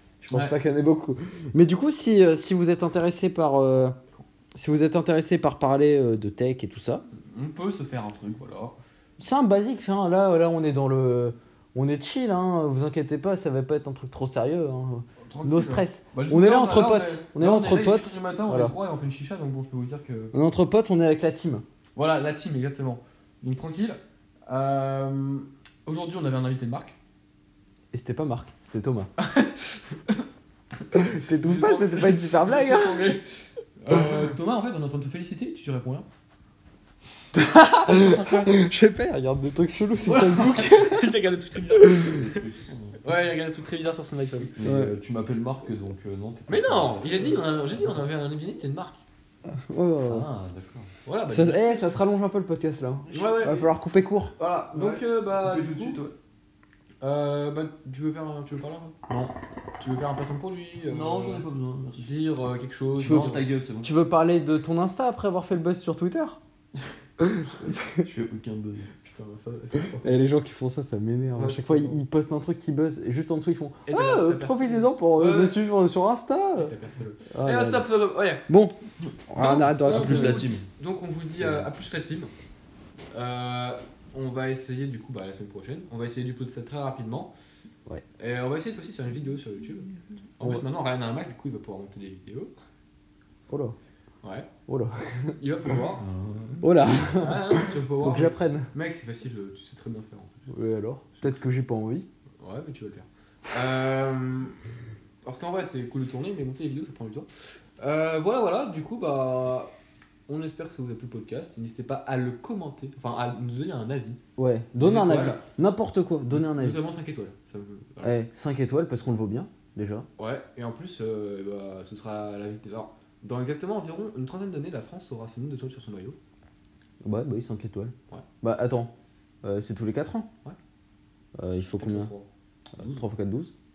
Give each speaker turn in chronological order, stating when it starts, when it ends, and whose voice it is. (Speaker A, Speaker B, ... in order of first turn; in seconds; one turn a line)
Speaker A: 0.2-4.0
Speaker B: 0.3-0.6
Speaker A: 4.5-7.0
Speaker B: 7.1-8.8
Speaker A: 9.2-18.7
Speaker B: 15.3-20.3
Speaker A: 20.3-21.6
Speaker B: 21.9-27.0
Speaker A: 27.9-29.1
Speaker B: 29.2-30.2
Speaker A: 30.9-33.1
Speaker B: 30.9-36.0
Speaker A: 37.3-41.1
Speaker B: 37.8-38.6
Speaker B: 40.0-42.4
Speaker C: 41.9-43.1
Speaker B: 43.0-44.5
Speaker C: 44.5-48.0
Speaker A: 44.6-44.9
Speaker B: 46.5-49.0
Speaker A: 49.4-50.3
Speaker C: 50.1-50.9
Speaker B: 51.0-52.0
Speaker A: 51.3-54.3
Speaker B: 53.1-53.7
Speaker C: 53.1-53.5
Speaker B: 54.4-56.0
Speaker C: 54.7-56.1
Speaker B: 57.0-58.9
Speaker C: 59.1-59.3
Speaker B: 59.8-61.4
Speaker C: 60.9-62.1
Speaker B: 62.0-63.4
Speaker C: 63.0-63.9
Speaker A: 63.0-63.3
Speaker A: 63.8-66.4
Speaker A: 67.2-68.0
Speaker C: 67.8-68.9
Speaker B: 69.0-70.1
Speaker A: 70.0-76.7
Speaker B: 71.3-72.0
Speaker B: 73.9-75.6
Speaker B: 76.5-78.4
Speaker A: 77.3-77.9
Speaker A: 78.5-78.8
Speaker A: 79.3-80.5
Speaker B: 79.3-82.3
Speaker C: 79.8-80.7
Speaker B: 83.1-87.3
Speaker B: 88.2-92.5
Speaker A: 93.5-93.8
Speaker B: 94.2-94.5
Speaker A: 94.7-95.4
Speaker B: 95.4-96.0
Speaker C: 96.0-96.8
Speaker A: 96.6-98.7
Speaker B: 97.1-100.5
Speaker A: 100.5-102.0
Speaker B: 101.2-101.5
Speaker B: 102.4-104.5
Speaker B: 105.2-107.3
Speaker B: 107.8-109.7
Speaker B: 110.3-114.2
Speaker A: 114.4-116.8
Speaker B: 114.8-115.4
Speaker B: 116.3-118.2
Speaker A: 118.0-120.1
Speaker B: 120.2-126.2
Speaker A: 127.0-128.9
Speaker A: 129.4-130.3
Speaker A: 131.3-132.1
Speaker B: 131.8-133.0
Speaker A: 132.7-133.5